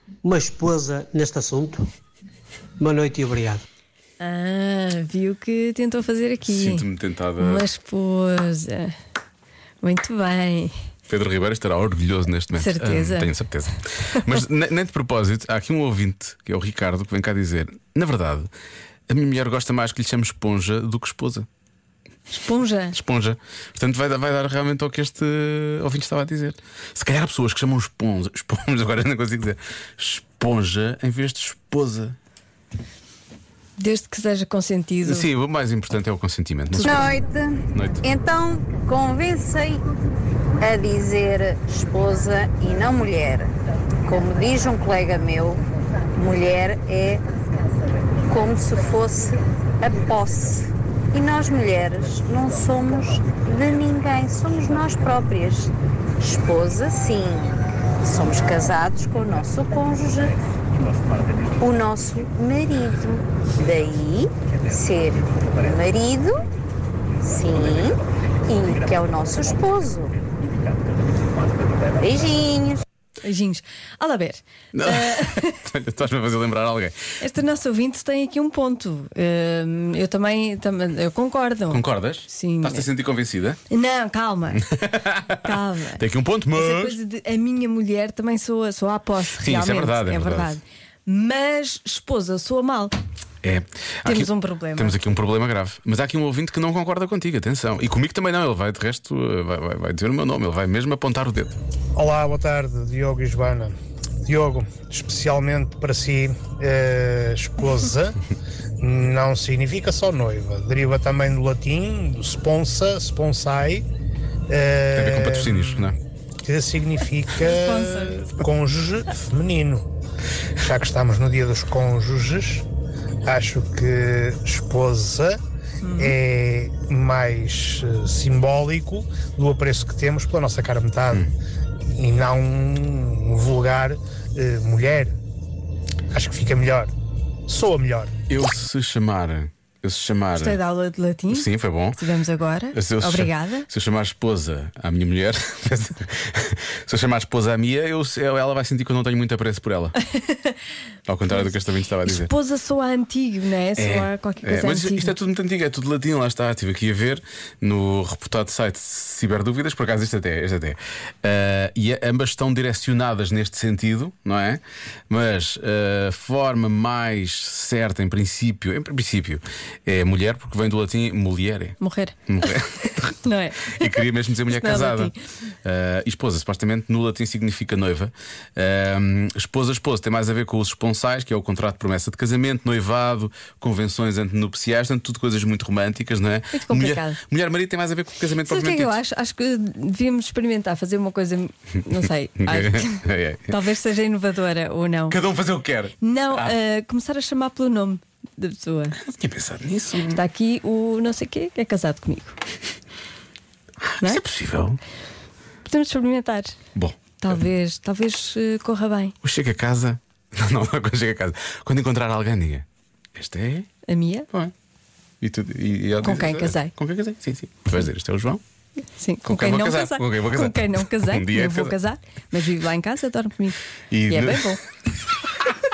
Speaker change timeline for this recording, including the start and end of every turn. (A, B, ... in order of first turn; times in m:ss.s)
0:00.2-0:01.9 A
0:02.8-0:03.6 A
0:04.2-0:06.8 B
0:06.4-0:07.6 C
0:07.4-0:08.9 B
0:09.8-0:10.7 B
0:11.1-0:18.5 C
0:12.5-0:13.3 B
0:19.1-0:21.4 C
0:22.3-0:23.0 B
0:22.9-0:32.2 C
0:33.8-0:35.3 B
0:35.0-0:37.1 C
0:36.7-0:37.1 B
0:36.8-0:39.8 D
0:37.7-0:38.0 C
0:40.6-0:43.5 D
0:44.0-0:45.6 D
0:46.2-0:47.2 D
0:48.3-1:00.4 D
1:01.6-1:06.4 D
1:07.2-1:10.2 D
1:12.0-1:12.8 D
1:13.2-1:15.6 B
1:14.7-1:17.0 C
1:17.2-1:22.9 B
1:21.7-1:23.6 C
1:23.7-1:24.7 B
1:24.7-1:27.0 C
1:25.3-1:26.0 B
1:26.5-1:32.9 B
1:29.4-1:30.6 C
1:33.4-1:41.6 C
1:34.0-1:35.0 B
1:42.0-1:43.7 E
1:44.3-1:48.2 E
1:48.8-1:53.8 E
1:54.5-1:55.9 E
1:54.9-1:56.0 C
1:56.5-1:59.8 E
1:57.4-1:58.3 B
2:00.6-2:02.6 E
2:03.2-2:05.4 E
2:05.8-2:06.2 B
2:06.0-2:11.3 E
2:12.0-2:15.1 E
2:16.1-2:16.9 E
2:17.5-2:18.1 E
2:18.3-2:20.6 C
2:20.4-2:23.7 B
2:21.3-2:22.0 C
2:22.7-2:30.0 C
2:31.1-2:32.3 C
2:32.1-2:35.1 B
2:33.8-2:51.8 C
2:51.8-2:52.2 B
2:52.3-2:55.1 C
2:52.8-2:55.2 B
2:55.6-3:09.0 C
3:06.5-3:07.2 B
3:08.4-3:15.2 B
3:12.4-3:13.5 C
3:15.1-3:16.5 C
3:16.0-3:19.0 B
3:19.0-3:20.2 C
3:20.1-3:22.3 B
3:23.8-3:24.8 C
3:25.6-3:26.6 B
3:26.8-3:27.4 C
3:27.2-3:29.1 B
3:29.2-3:32.6 C
3:33.2-3:33.7 C
3:33.9-3:34.3 B
3:35.2-3:38.4 C
3:36.0-3:36.7 B
3:39.0-3:44.6 B
3:39.2-3:41.8 C
3:43.9-3:44.5 C